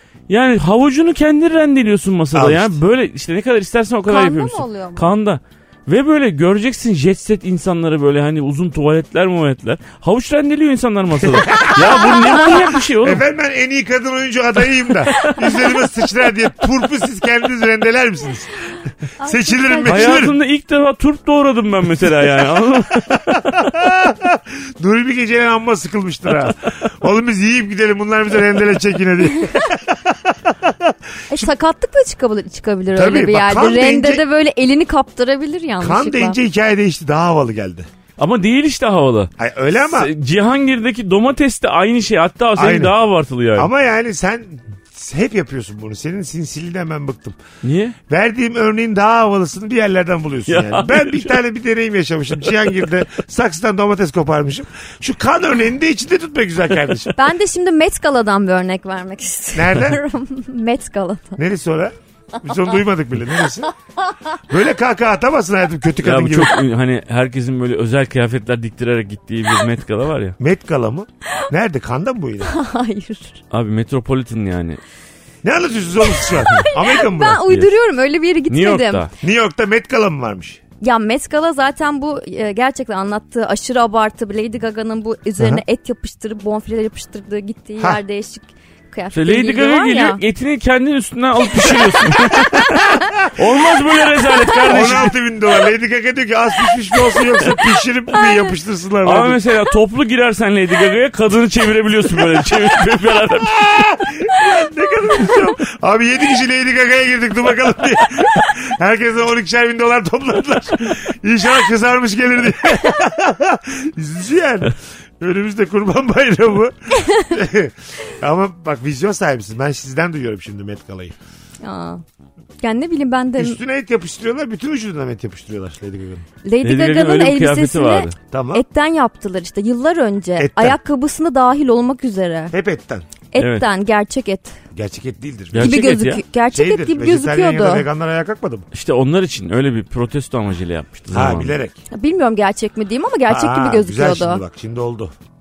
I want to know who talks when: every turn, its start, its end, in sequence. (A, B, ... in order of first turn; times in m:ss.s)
0:00.3-0:13.2 A
0:02.3-0:02.8 B
0:04.1-0:05.1 C
0:11.3-0:12.2 B
0:11.7-0:12.2 C
0:13.0-0:20.4 B
0:15.1-0:15.6 A
0:19.2-0:20.3 C
0:19.9-0:23.6 A
0:23.5-0:31.5 B
0:31.3-0:36.4 C
0:32.9-0:34.2 B
0:35.8-0:37.9 B
0:38.2-0:43.7 A
0:39.4-0:40.1 B
0:42.6-0:42.9 B
0:43.6-0:47.4 B
0:47.6-0:48.0 A
0:48.1-0:57.1 B
0:50.5-0:51.4 A
0:57.1-1:01.4 C
0:59.6-1:00.0 B
1:01.4-1:03.7 B
1:04.5-1:06.6 B
1:06.0-1:10.4 A
1:10.4-1:12.5 B
1:12.4-1:13.4 C
1:13.5-1:14.8 A
1:15.4-1:17.4 B
1:16.0-1:19.1 C
1:18.5-1:19.1 A
1:19.2-1:20.6 B
1:20.8-1:30.2 C
1:29.1-1:35.2 A
1:33.0-1:33.4 B
1:34.7-1:39.4 B
1:39.0-1:43.9 A
1:43.4-2:01.2 B
2:01.6-2:02.0 C
2:02.6-2:03.6 C
2:03.4-2:06.2 B
2:06.4-2:12.5 C
2:06.6-2:08.2 A
2:08.3-2:08.6 B
2:10.4-2:10.8 B
2:12.5-2:13.1 B
2:13.3-2:14.6 C
2:13.4-2:13.7 A
2:14.7-2:15.8 B
2:15.5-2:16.2 A
2:15.6-2:17.9 C
2:16.5-2:18.6 B
2:18.7-2:21.6 A
2:21.1-2:21.8 B
2:21.9-2:24.4 C
2:23.3-2:25.2 B